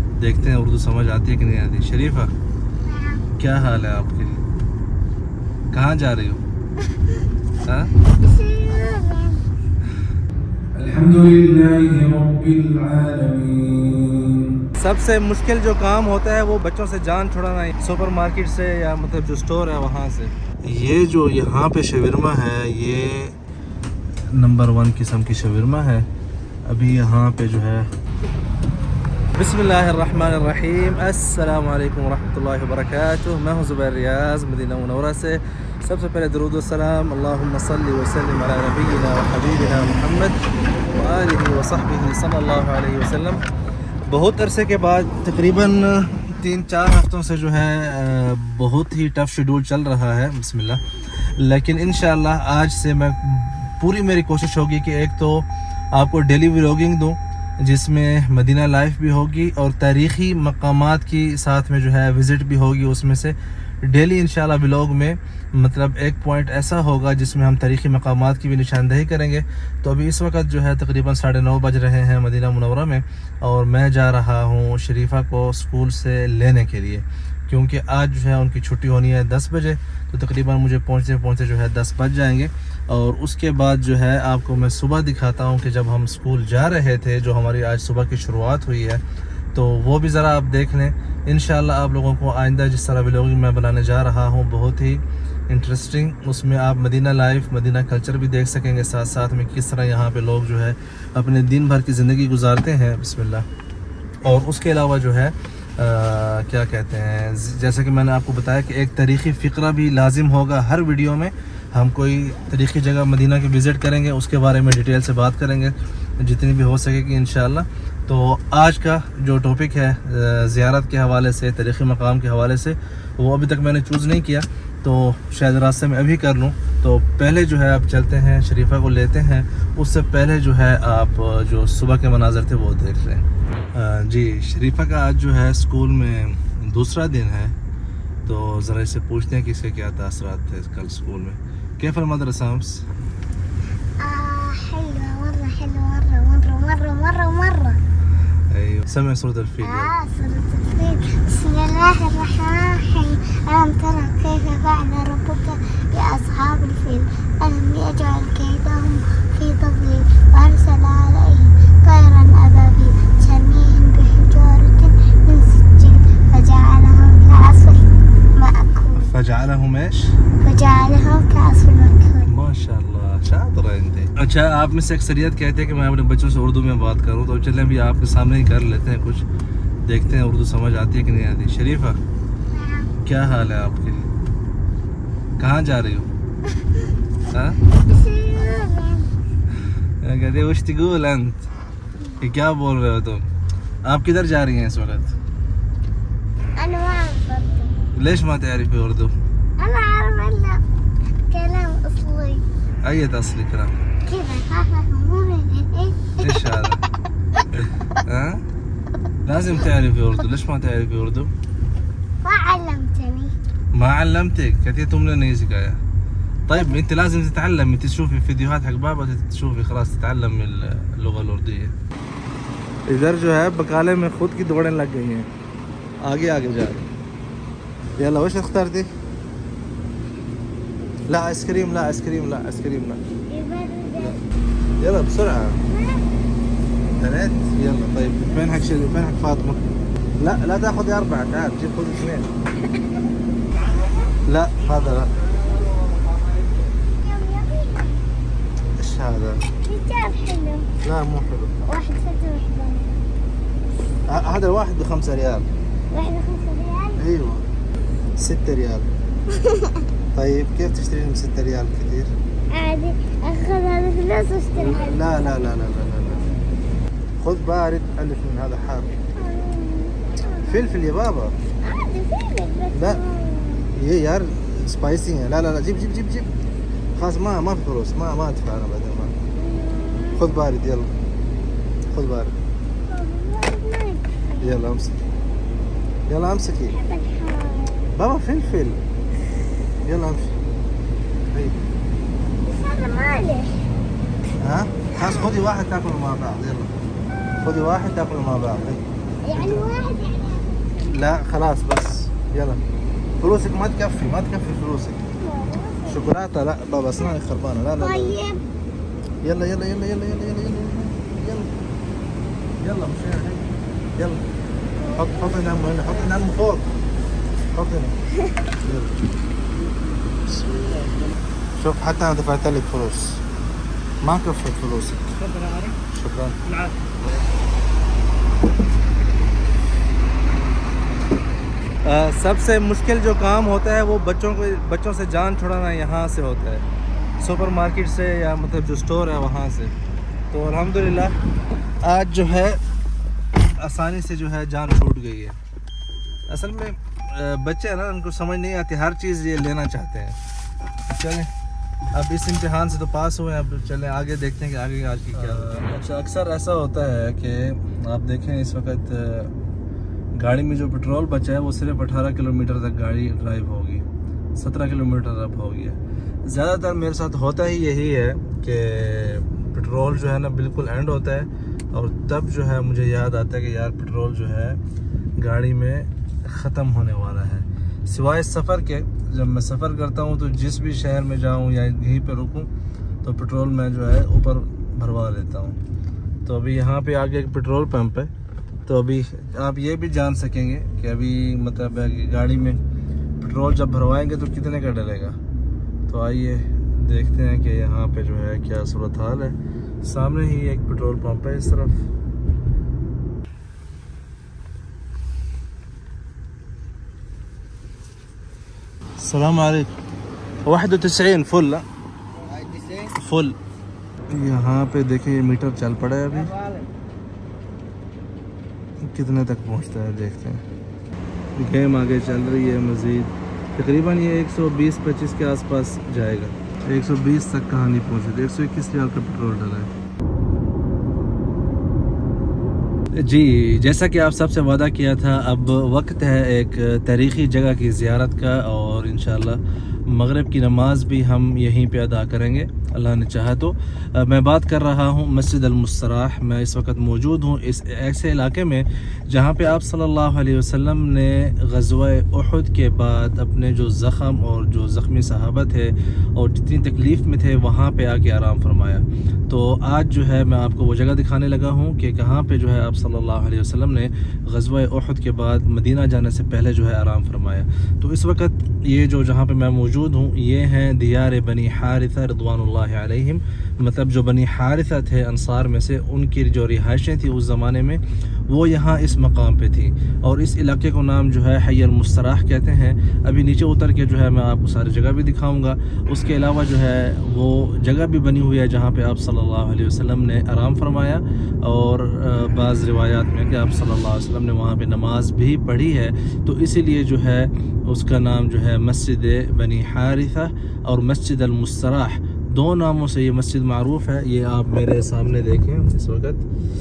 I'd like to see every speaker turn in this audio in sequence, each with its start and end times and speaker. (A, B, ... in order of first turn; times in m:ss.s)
0:00.2-0:02.3 A
0:02.9-0:03.2 B
0:03.4-0:04.3 A
0:05.7-0:06.4 A
0:07.6-0:07.9 A
0:08.0-0:09.4 B
0:10.8-0:14.5 C
0:11.1-0:11.6 A
0:14.8-0:23.4 A
0:24.3-0:26.1 A
0:26.7-0:27.9 A
0:29.3-0:43.4 A
0:44.0-1:29.0 A
1:29.5-1:43.5 A
1:44.2-2:17.6 A
2:18.2-2:22.9 A
2:24.0-2:27.8 B
2:28.5-2:29.9 A
2:29.6-2:49.2 B
2:49.0-2:50.2 A
2:50.4-2:52.3 B
2:52.2-2:59.3 A
2:59.8-3:02.0 A
3:02.5-3:02.9 B
3:03.0-3:04.0 A
3:05.4-3:06.1 A
3:07.3-3:07.6 A
3:07.8-3:09.1 B
3:10.0-3:11.5 A
3:12.2-3:13.3 A
3:13.8-3:15.2 A
3:16.6-3:17.8 B
3:17.9-3:19.1 A
3:19.6-3:20.6 B
3:21.3-3:22.5 B
3:22.8-3:23.8 A
3:24.1-3:26.2 B
3:26.2-3:26.8 A
3:27.5-3:28.4 A
3:29.2-3:31.3 A
3:32.2-3:33.4 B
3:33.7-3:35.8 A
3:36.5-3:41.8 A
3:42.9-3:45.3 A
3:46.0-3:46.9 A
3:48.0-3:48.9 A
3:51.1-3:53.0 A
3:53.3-3:54.2 B
3:54.8-3:55.6 A
3:55.7-3:56.1 B
3:56.9-3:59.6 A
4:00.2-4:02.3 A
4:04.2-4:05.2 A
4:06.9-4:08.0 B
4:08.8-4:09.5 A
4:09.6-4:10.7 B
4:10.8-4:11.6 A
4:11.6-4:13.0 B
4:14.1-4:15.5 A
4:15.9-4:17.0 B
4:17.0-4:17.4 A
4:18.2-4:18.9 A
4:19.3-4:19.9 B
4:20.2-4:22.1 A
4:22.5-4:25.3 B
4:24.6-4:26.3 A
4:27.2-4:29.0 A
4:29.2-4:30.8 B
4:30.4-4:31.4 A
4:31.6-4:33.7 B
4:32.7-4:33.0 A
4:33.7-4:36.3 A
4:37.0-4:39.2 A
4:39.4-4:40.2 B
4:40.1-4:41.0 A
4:41.9-4:42.4 A
4:42.9-4:44.6 B
4:44.4-4:45.0 A
4:46.1-4:46.8 A
4:46.7-4:47.9 B
4:47.9-4:48.8 A
4:49.8-4:50.4 A
4:51.3-4:51.6 A
4:52.4-4:53.7 B
4:54.4-4:56.7 A
4:57.4-4:59.7 A
4:59.2-5:00.6 B
5:00.8-5:02.6 A
5:03.2-5:05.1 A
5:05.2-5:06.1 B
5:05.9-5:08.2 A
5:07.8-5:08.4 B
5:09.2-5:11.5 A
5:12.6-5:13.4 A
5:14.0-5:14.2 A
5:14.8-5:16.2 B
5:14.9-5:16.7 A
5:17.5-5:18.0 A
5:18.6-5:19.1 A
5:20.3-5:20.7 A
5:21.6-5:23.2 A
5:24.0-5:26.6 A
5:31.8-5:36.7 A
5:37.2-5:39.7 A
5:40.3-5:41.2 A
5:41.8-5:42.6 A
5:43.4-5:45.4 A
5:46.3-5:50.2 A
5:50.9-5:51.3 A
5:51.9-5:59.3 A
6:00.2-6:03.8 A
6:04.4-6:14.6 A
6:15.2-6:22.5 A
6:23.0-6:25.6 A
6:26.2-6:28.1 A
6:28.7-6:32.6 A
6:33.2-6:35.2 A
6:35.9-6:41.8 A
6:49.0-6:49.7 A
6:50.4-6:51.6 A
6:52.8-6:53.4 A
6:54.1-6:56.4 A
6:58.8-7:00.4 A
7:01.4-7:09.7 A
7:13.0-8:26.3 A